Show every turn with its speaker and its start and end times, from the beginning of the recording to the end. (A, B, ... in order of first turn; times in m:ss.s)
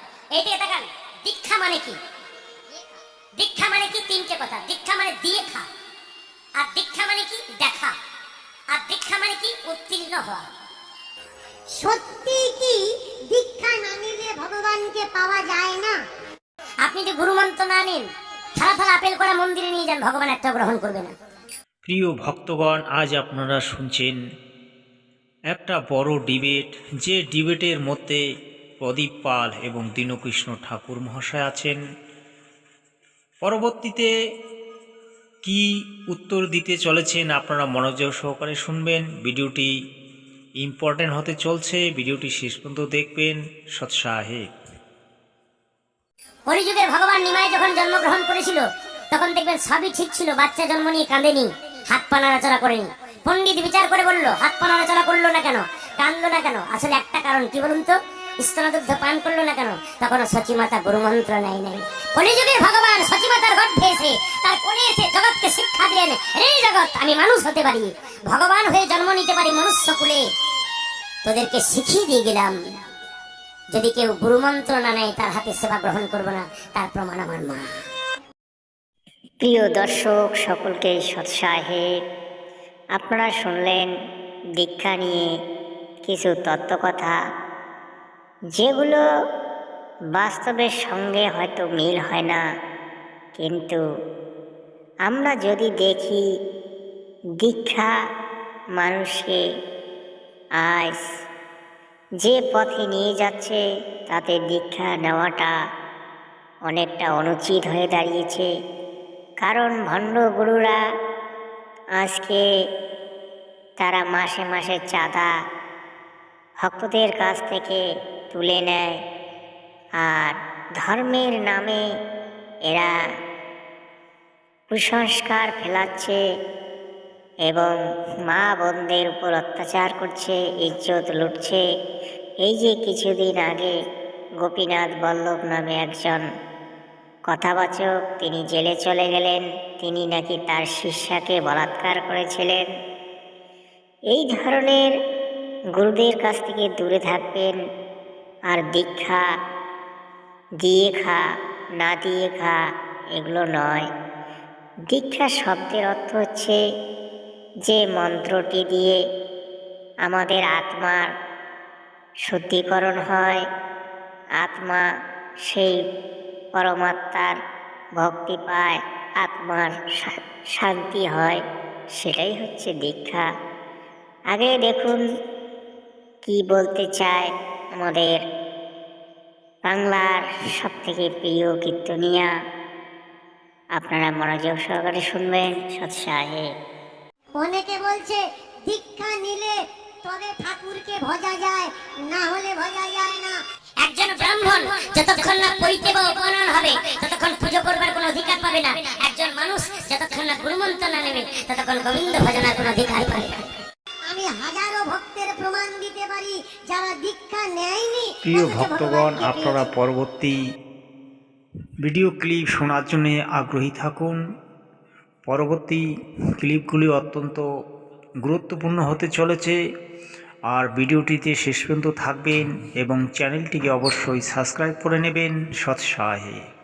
0:00.3-0:02.0 A
0:03.4-0:05.7 A
0:06.6-0:08.0 A
0:08.7-0:10.4 A
0:11.8-0:12.8 B
0:13.3-0:15.9 B
0:16.8-0:18.0 A
0:18.6-0:21.1 A
0:21.8-0:24.2 C
0:25.5-0:28.2 C
0:28.8-0:31.8 C
0:33.4-0:34.1 C
0:35.4-0:39.7 C
0:40.6-0:44.5 C
0:46.5-1:10.2 A
1:11.2-1:12.6 A
1:13.7-1:17.6 A
1:19.4-1:21.9 D
1:23.0-1:23.9 D
1:24.6-1:25.2 D
1:26.1-1:27.2 D
1:28.6-1:29.0 D
1:30.2-1:32.4 D
1:33.4-1:33.8 D
1:35.1-1:36.2 D
1:37.4-1:37.9 D
1:38.8-1:39.4 D
1:40.6-1:41.0 D
1:42.2-1:45.5 D
1:46.7-1:48.5 D
1:49.4-1:50.8 D
1:52.0-1:52.4 D
1:53.8-1:55.3 D
1:56.6-1:58.8 D
2:00.0-2:01.8 D
2:04.7-2:06.2 D
2:07.5-2:07.8 D
2:08.3-2:11.6 D
2:12.4-2:13.8 D
2:14.4-2:16.2 D
2:17.3-2:22.6 D
2:24.1-2:24.9 D
2:25.8-2:27.6 D
2:28.5-2:29.3 D
2:30.6-2:31.2 D
2:31.8-2:32.6 D
2:33.2-2:33.9 D
2:34.9-2:36.6 D
2:37.7-2:39.0 D
2:40.1-2:41.1 D
2:42.3-2:43.4 D
2:44.4-2:44.9 D
2:45.5-2:45.8 D
2:46.6-2:47.4 D
2:48.0-2:51.4 D
2:52.0-2:53.3 D
2:54.3-2:55.0 D
2:56.3-2:58.2 D
2:59.7-3:02.3 D
3:03.8-3:06.5 D
3:07.4-3:13.4 B
3:13.8-3:23.4 A
3:24.1-3:29.6 B
3:28.2-3:30.4 C
3:31.8-3:34.2 C
3:35.3-3:35.8 C
3:36.4-3:37.5 C
3:38.2-3:39.6 C
3:40.5-3:46.4 C